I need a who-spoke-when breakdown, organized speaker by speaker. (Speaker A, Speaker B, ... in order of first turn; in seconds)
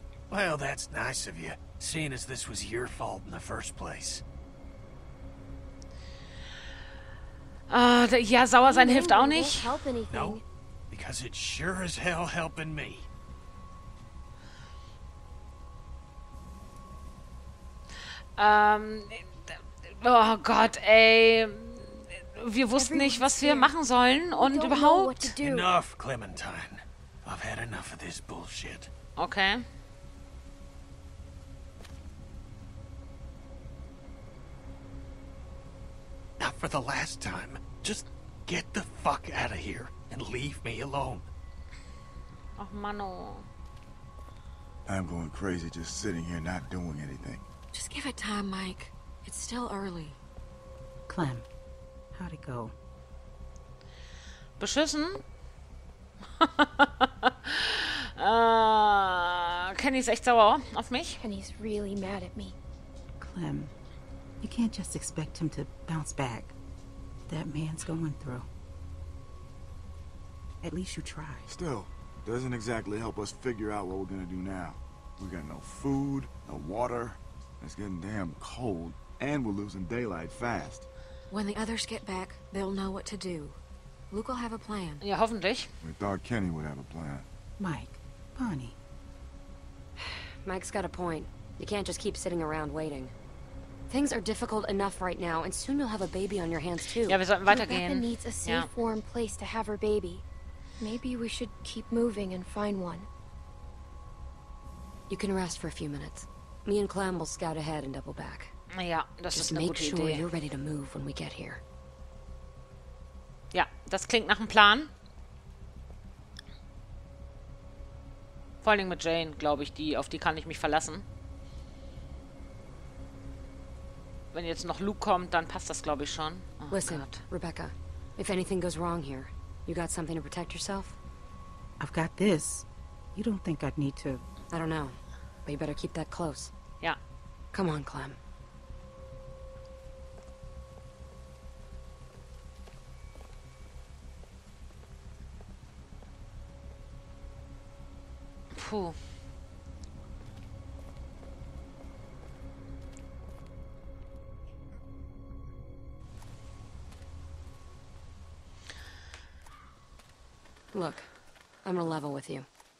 Speaker A: 0.3-4.2, 10.1-10.3, 10.9-13.1, 25.4-28.9, 36.4-41.2
Speaker B: 7.7-9.8, 18.4-25.4, 29.2-29.6, 42.6-43.5, 54.6-55.2, 56.4-61.2, 85.0-85.7, 97.0-98.7, 108.7-110.2, 113.5-114.9, 118.6-121.0, 124.3-127.2, 148.5-149.0
Speaker C: 8.7-10.4, 22.7-23.7, 24.3-25.7, 61.2-62.6, 97.5-100.2, 100.8-103.1
Speaker D: 44.9-47.4, 71.5-80.9, 85.8-87.2
Speaker E: 47.7-50.2, 81.3-83.6, 84.1-85.0
Speaker F: 51.1-51.5, 52.1-52.7, 63.2-63.7, 64.4-66.5, 67.3-68.5, 70.6-71.5, 87.6-88.8, 131.8-134.2
Speaker G: 90.0-93.1, 93.9-97.2, 105.1-108.5, 109.3-111.6, 126.7-131.0, 134.5-136.5, 137.5-138.2, 160.7-161.1, 161.6-162.5